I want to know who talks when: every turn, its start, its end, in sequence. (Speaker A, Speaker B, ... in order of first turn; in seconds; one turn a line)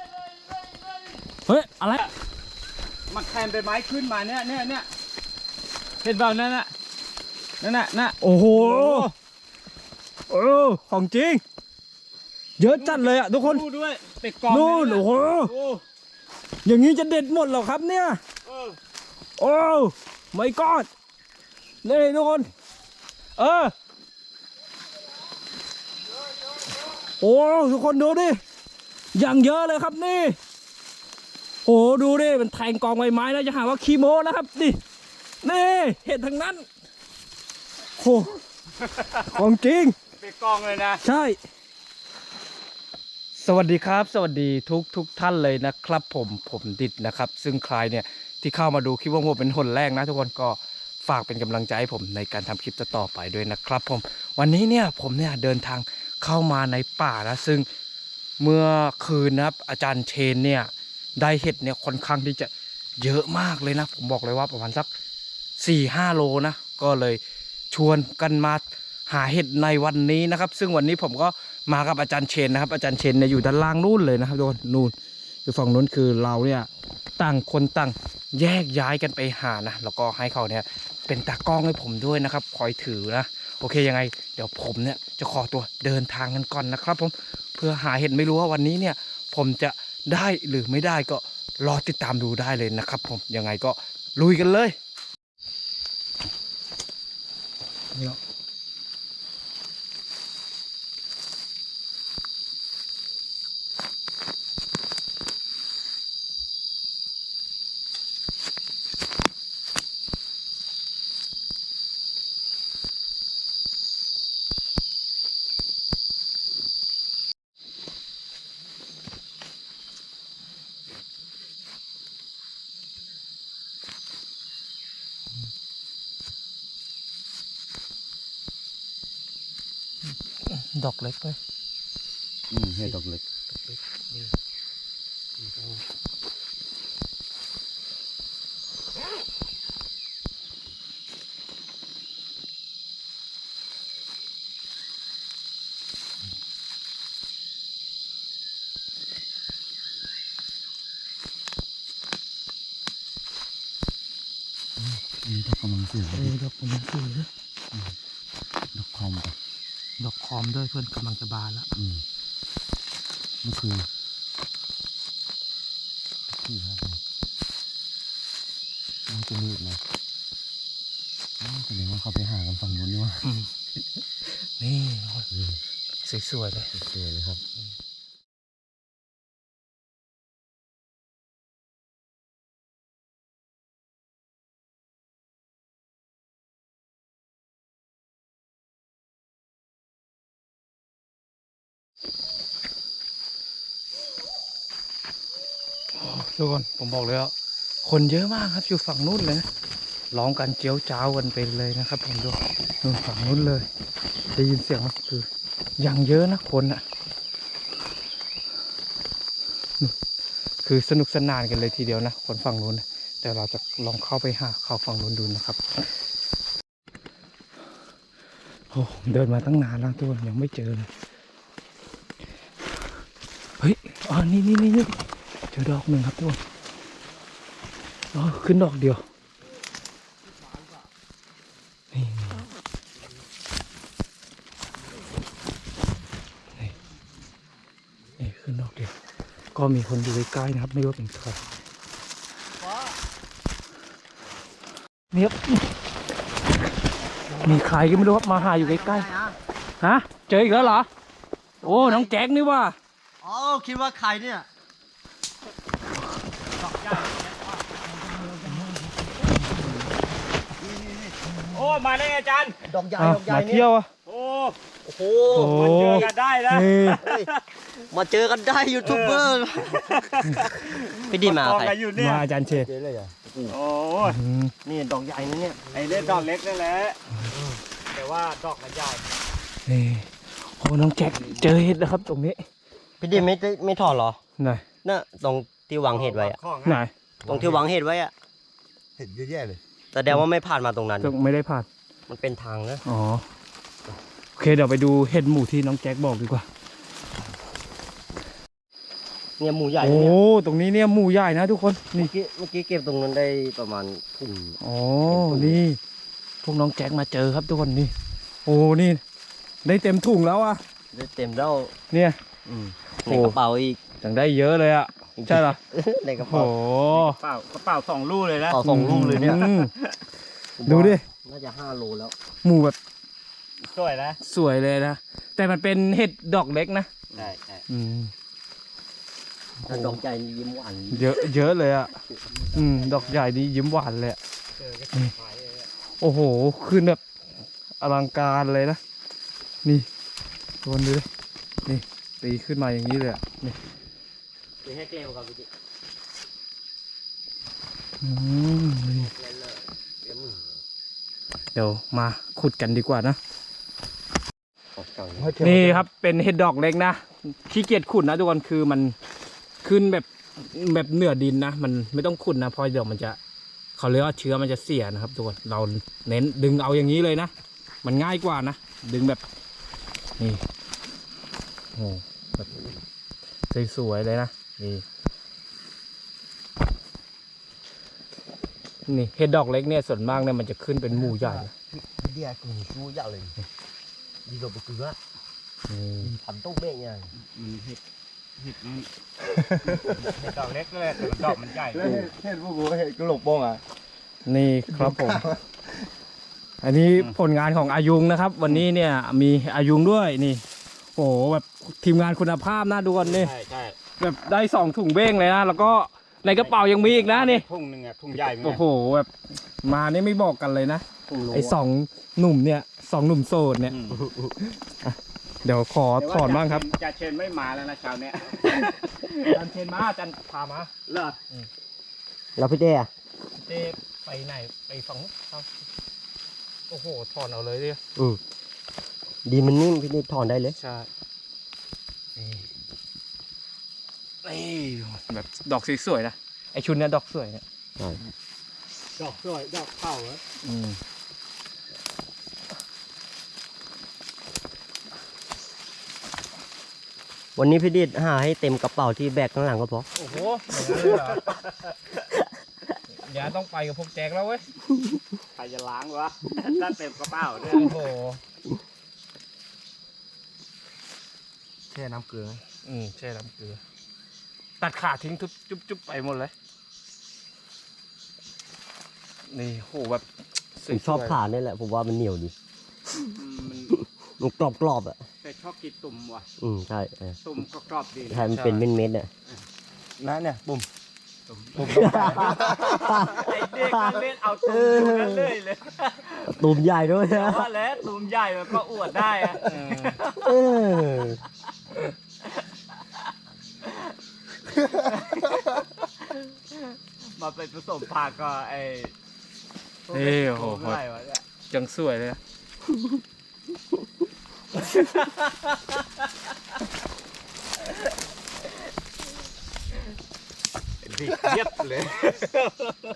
Speaker A: 0.4-0.8
Speaker B: 1.5-2.1
Speaker A: 3.1-4.9
Speaker A: 6.0-6.7
Speaker A: 7.6-9.1
Speaker B: 8.2-9.1
Speaker B: 10.3-11.4
Speaker B: 12.6-13.6
Speaker A: 12.7-15.8
Speaker B: 14.5-15.5
Speaker B: 16.6-18.2
Speaker A: 18.4-18.8
Speaker B: 19.4-20.9
Speaker B: 21.8-22.5
Speaker B: 23.4-23.7
Speaker B: 27.2-28.4
Speaker B: 29.1-30.4
Speaker B: 31.6-34.8
Speaker B: 35.4-36.6
Speaker B: 38.0-38.4
Speaker A: 38.8-39.1
Speaker B: 39.3-40.0
Speaker A: 40.2-41.0
Speaker B: 41.0-41.4
Speaker B: 43.4-57.6
Speaker B: 58.4-64.9
Speaker B: 65.6-67.2
Speaker B: 67.7-74.9
Speaker B: 75.5-94.8
Speaker B: 130.5-131.4
Speaker C: 132.5-133.2
Speaker B: 133.7-134.3
Speaker C: 154.8-156.3
Speaker B: 156.1-157.3
Speaker C: 158.7-159.3
Speaker B: 160.0-161.7
Speaker C: 161.8-162.0
Speaker C: 163.4-163.8
Speaker C: 166.4-167.0
Speaker D: 166.4-166.9
Speaker C: 169.1-169.8
Speaker D: 171.4-173.2
Speaker C: 172.3-173.1
Speaker B: 173.2-173.5
Speaker B: 174.6-175.3
Speaker B: 176.0-176.7
Speaker D: 176.7-177.4
Speaker B: 195.9-197.3
Speaker B: 197.8-199.4
Speaker B: 200.1-203.7
Speaker B: 204.3-205.3
Speaker B: 205.8-206.8
Speaker B: 210.6-215.9
Speaker B: 218.7-220.9
Speaker B: 223.6-226.4
Speaker B: 228.1-229.0
Speaker B: 231.9-232.4
Speaker B: 238.2-238.9
Speaker B: 239.5-241.4
Speaker D: 242.6-242.9
Speaker B: 245.1-245.7
Speaker D: 247.3-249.3
Speaker B: 247.4-249.1
Speaker B: 249.8-250.9
Speaker D: 251.6-252.1
Speaker B: 251.6-252.8
Speaker D: 253.2-254.5
Speaker A: 256.6-257.8
Speaker A: 258.4-258.7
Speaker A: 260.6-262.6
Speaker D: 262.6-263.6
Speaker B: 263.0-263.9
Speaker A: 264.1-264.6
Speaker D: 264.8-266.1
Speaker A: 265.2-267.3
Speaker B: 265.3-267.0
Speaker D: 266.9-267.3
Speaker D: 267.9-269.9
Speaker A: 268.8-272.2
Speaker D: 270.9-271.7
Speaker B: 271.9-272.7
Speaker C: 272.5-273.4
Speaker A: 273.5-274.2
Speaker B: 274.1-274.5
Speaker D: 274.6-275.8
Speaker A: 275.7-277.0
Speaker A: 277.9-279.1
Speaker B: 279.7-282.4
Speaker D: 283.0-284.2
Speaker B: 284.4-284.6
Speaker D: 284.8-286.4
Speaker A: 285.9-287.5
Speaker B: 286.6-286.9
Speaker D: 287.2-288.1
Speaker C: 287.3-287.5
Speaker C: 289.0-289.6
Speaker D: 289.9-291.1
Speaker B: 291.0-291.7
Speaker D: 292.1-292.8
Speaker B: 292.8-293.2
Speaker B: 294.4-296.5
Speaker D: 299.4-300.2
Speaker B: 299.8-302.1
Speaker D: 301.9-305.6
Speaker B: 304.6-305.8
Speaker B: 306.4-309.0
Speaker B: 309.6-310.6
Speaker D: 310.9-311.7
Speaker B: 311.9-312.2
Speaker D: 312.4-313.8
Speaker B: 313.1-313.4
Speaker B: 314.0-315.6
Speaker D: 315.2-316.5
Speaker B: 316.2-317.2
Speaker A: 316.9-319.8
Speaker D: 318.5-319.5
Speaker B: 318.6-319.7
Speaker D: 320.6-322.1
Speaker B: 320.6-321.0
Speaker B: 322.4-322.8
Speaker A: 323.7-324.2
Speaker B: 324.2-326.9
Speaker A: 327.1-327.6
Speaker B: 327.7-328.1
Speaker B: 329.6-330.0
Speaker D: 329.6-331.3
Speaker B: 330.9-331.9
Speaker A: 332.4-333.1
Speaker B: 332.5-334.2
Speaker A: 334.6-335.7
Speaker B: 336.0-337.0
Speaker B: 337.8-338.8
Speaker B: 340.6-341.1
Speaker B: 341.6-343.6
Speaker D: 344.6-345.5
Speaker B: 348.0-349.1
Speaker D: 348.9-350.6
Speaker B: 351.5-353.2
Speaker D: 354.8-355.4
Speaker C: 355.2-355.8
Speaker B: 355.4-358.9
Speaker B: 359.6-363.2
Speaker B: 363.8-367.3
Speaker B: 367.8-369.2
Speaker B: 371.8-372.5
Speaker B: 373.5-374.8
Speaker B: 378.9-381.5
Speaker D: 381.0-383.4
Speaker D: 384.2-385.0
Speaker B: 385.7-386.1
Speaker D: 386.0-387.1
Speaker A: 387.2-387.8
Speaker A: 388.4-388.9
Speaker C: 389.2-390.0
Speaker A: 389.6-392.1
Speaker C: 391.6-393.6
Speaker B: 394.2-395.2
Speaker C: 394.7-395.4
Speaker B: 396.6-400.4
Speaker B: 400.9-403.3
Speaker A: 403.0-403.8
Speaker B: 404.0-407.4
Speaker A: 406.4-408.6
Speaker B: 408.1-409.1
Speaker B: 409.6-413.8
Speaker D: 411.1-411.6
Speaker A: 413.7-414.0
Speaker D: 413.9-414.3
Speaker B: 414.4-416.7
Speaker A: 416.0-418.5
Speaker B: 418.5-420.7
Speaker A: 420.9-421.2
Speaker D: 422.4-422.9
Speaker B: 423.4-425.5
Speaker B: 426.7-427.8
Speaker D: 429.2-430.6
Speaker B: 430.6-430.9
Speaker B: 432.1-432.4
Speaker B: 434.2-437.4
Speaker A: 439.0-440.2
Speaker B: 440.4-440.8
Speaker D: 447.4-449.9
Speaker B: 449.9-451.2
Speaker A: 450.5-451.4
Speaker B: 452.9-454.4
Speaker A: 455.4-457.7
Speaker B: 457.5-458.2
Speaker C: 461.7-462.4
Speaker B: 462.6-463.6
Speaker B: 464.6-466.3
Speaker B: 469.3-471.1
Speaker D: 470.7-472.3
Speaker A: 473.0-473.8
Speaker D: 473.7-475.0
Speaker A: 475.2-476.2
Speaker D: 476.4-477.2
Speaker A: 477.2-478.6
Speaker D: 478.1-479.1
Speaker C: 480.0-480.7
Speaker A: 481.3-486.4
Speaker C: 481.6-482.8
Speaker D: 481.6-485.4
Speaker D: 486.3-487.5
Speaker A: 487.1-490.3
Speaker B: 489.4-490.0
Speaker D: 490.1-491.2
Speaker A: 494.6-496.3
Speaker A: 497.1-498.9
Speaker A: 499.9-501.2
Speaker B: 499.9-500.8
Speaker B: 501.5-502.2
Speaker B: 504.6-505.1
Speaker A: 510.8-512.7